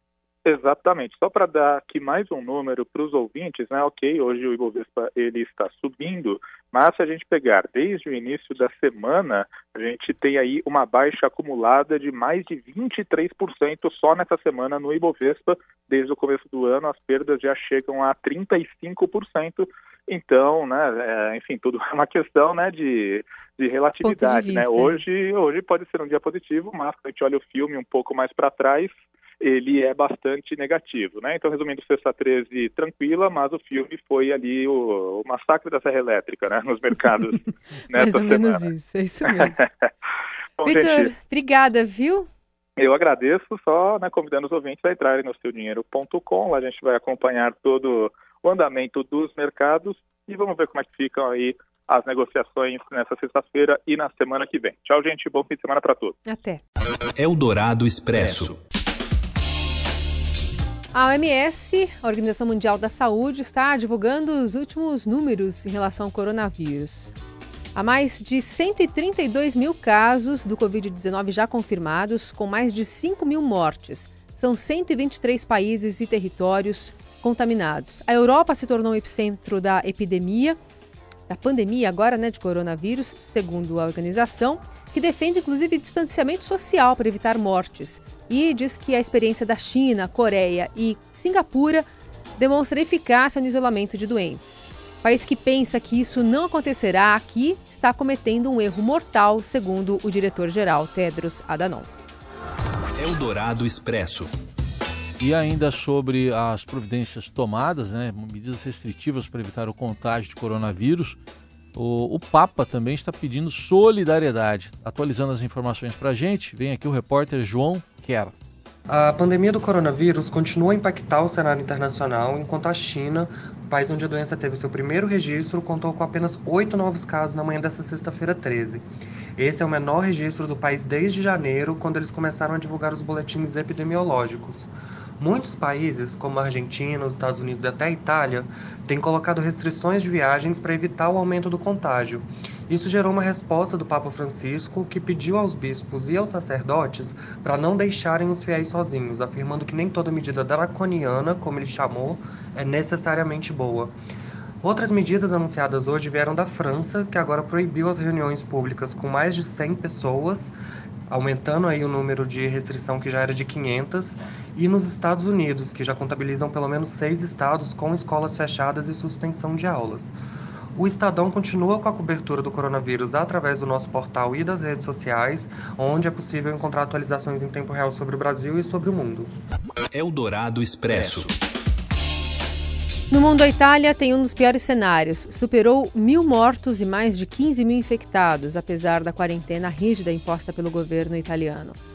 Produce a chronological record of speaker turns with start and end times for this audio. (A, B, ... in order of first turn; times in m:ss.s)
0:00.4-0:38.7 A
0:24.0-0:25.0 B
0:37.9-0:39.6 B
0:39.2-0:39.9 A
0:40.6-0:41.1 A
0:40.6-0:42.3 B
0:42.8-0:56.2 A
0:56.2-0:56.6 B
0:57.2-0:58.6 C
1:00.9-1:07.1 B
1:07.7-1:20.6 B
1:21.3-1:31.8 B
1:32.4-1:41.9 B
1:43.0-1:44.3 C
1:45.2-1:51.2 D
1:51.7-1:58.3 D
1:58.9-2:33.9 E
2:34.6-2:40.5 E
2:41.1-2:50.1 E
2:50.8-2:59.3 E
2:59.9-3:01.3 C
3:03.1-3:11.8 B